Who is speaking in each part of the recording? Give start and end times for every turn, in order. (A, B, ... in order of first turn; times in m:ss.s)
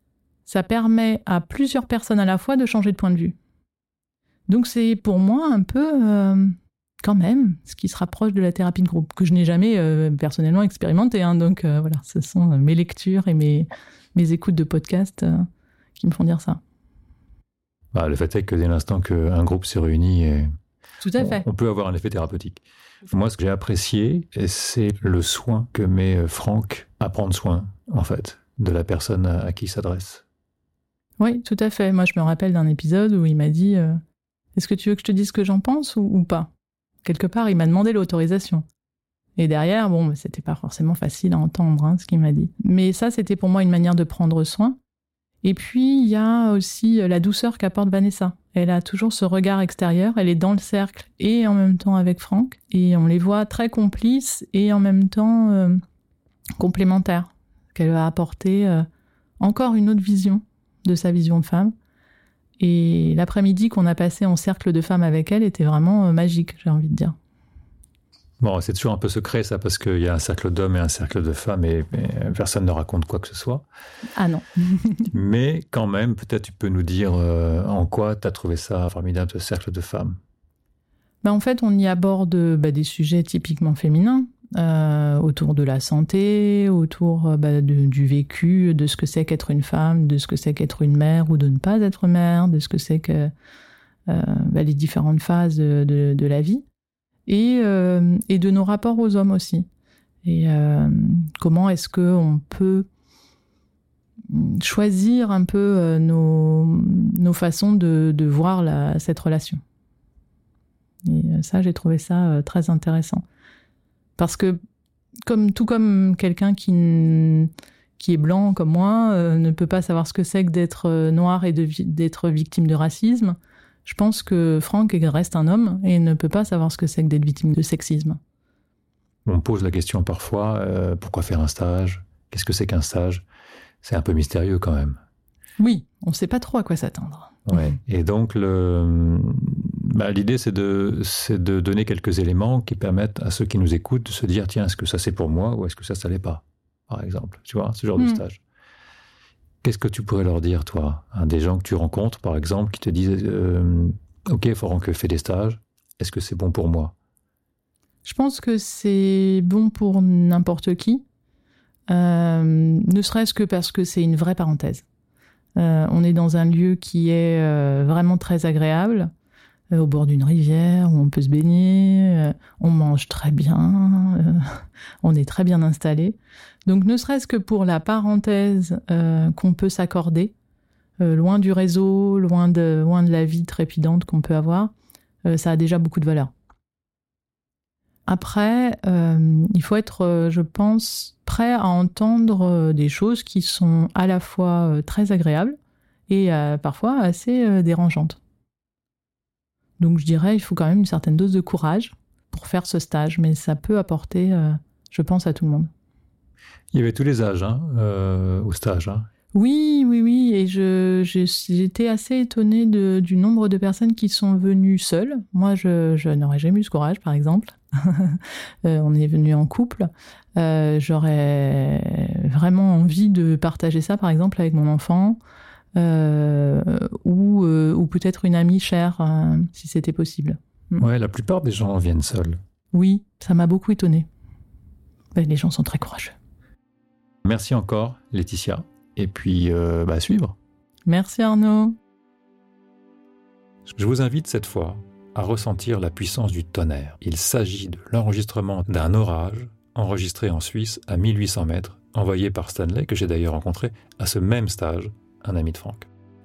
0:00.5-0:03.4 A
0:04.5-0:15.5 A
0:16.0-0:16.6 A
0:17.9-0:20.5 B
0:21.0-0:21.4 A
0:21.2-0:30.2 B
0:31.2-0:34.0 A
0:34.6-0:36.5 A
0:37.0-0:38.6 A
0:39.4-0:44.8 A
0:45.4-0:55.8 A
0:56.6-0:58.8 A
0:59.4-1:01.7 A
1:02.6-1:07.2 A
1:08.4-1:13.6 B
1:14.2-1:15.1 A
1:15.1-1:20.2 B
1:21.2-1:33.3 A
1:34.1-1:36.6 A
1:37.3-1:39.7 A
1:40.2-1:42.9 A
1:44.3-1:49.6 A
1:51.0-1:53.2 A
1:54.2-1:54.6 A
1:55.2-2:08.2 A
2:09.3-2:13.2 B
2:13.8-2:15.0 B
2:15.6-2:17.8 A
2:17.5-2:28.4 B
2:28.0-2:28.2 A
2:29.6-2:36.9 B
2:38.0-2:41.0 A
2:41.9-2:44.8 A
2:45.6-2:49.1 A
2:49.7-3:00.3 A
3:01.0-3:04.7 A
3:05.3-3:06.3 A
3:08.1-3:15.6 A
3:16.1-3:18.2 A
3:19.8-3:25.7 A
3:26.7-3:29.1 B
3:29.3-3:45.2 A
3:45.8-3:50.8 A
3:50.8-3:52.4 B
3:52.7-3:54.1 A
3:55.2-3:56.2 A
3:57.2-4:00.4 B
4:00.9-4:01.8 A
4:03.7-4:15.9 B